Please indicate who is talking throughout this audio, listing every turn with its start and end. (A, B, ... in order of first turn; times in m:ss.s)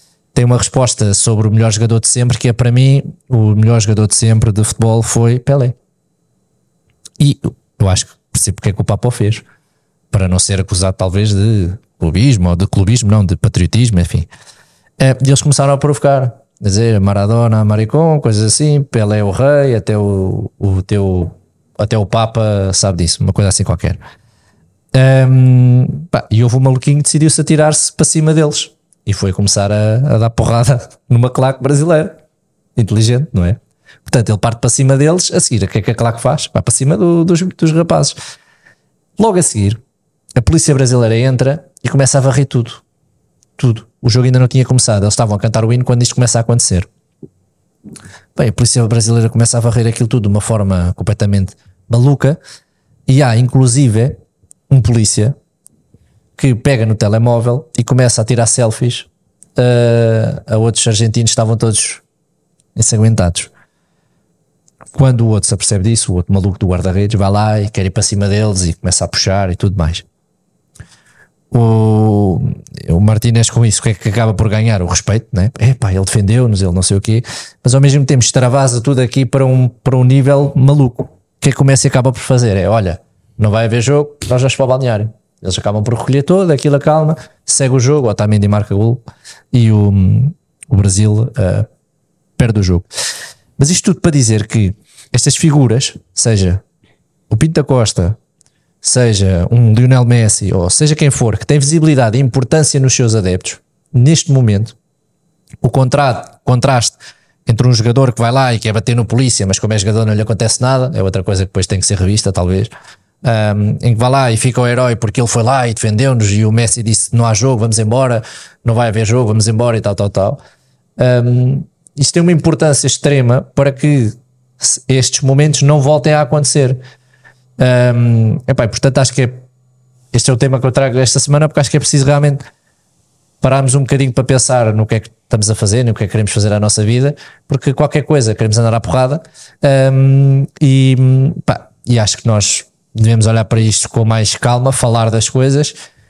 0:00.4-0:05.8 A
0:07.2-0:09.4 A
0:10.1-0:14.3 A
0:15.0-0:24.0 A
0:24.9-0:32.2 A
0:32.8-0:38.2 A
0:39.2-0:39.8 A
0:40.4-0:42.8 A
0:43.6-0:46.9 A
0:48.4-0:52.4 A
0:53.1-0:54.2 A
0:54.7-0:55.4 A
0:56.4-1:02.0 A
1:02.8-1:03.5 A
1:04.9-1:10.0 A
1:11.5-1:31.7 A
1:32.4-1:32.9 A
1:33.6-1:36.6 A
1:37.3-1:38.2 A
1:38.8-1:44.8 A
1:45.6-1:52.7 A
1:53.2-2:00.4 A
2:01.0-2:06.8 A
2:07.6-2:09.4 A
2:10.1-2:12.4 A
2:13.4-2:25.8 A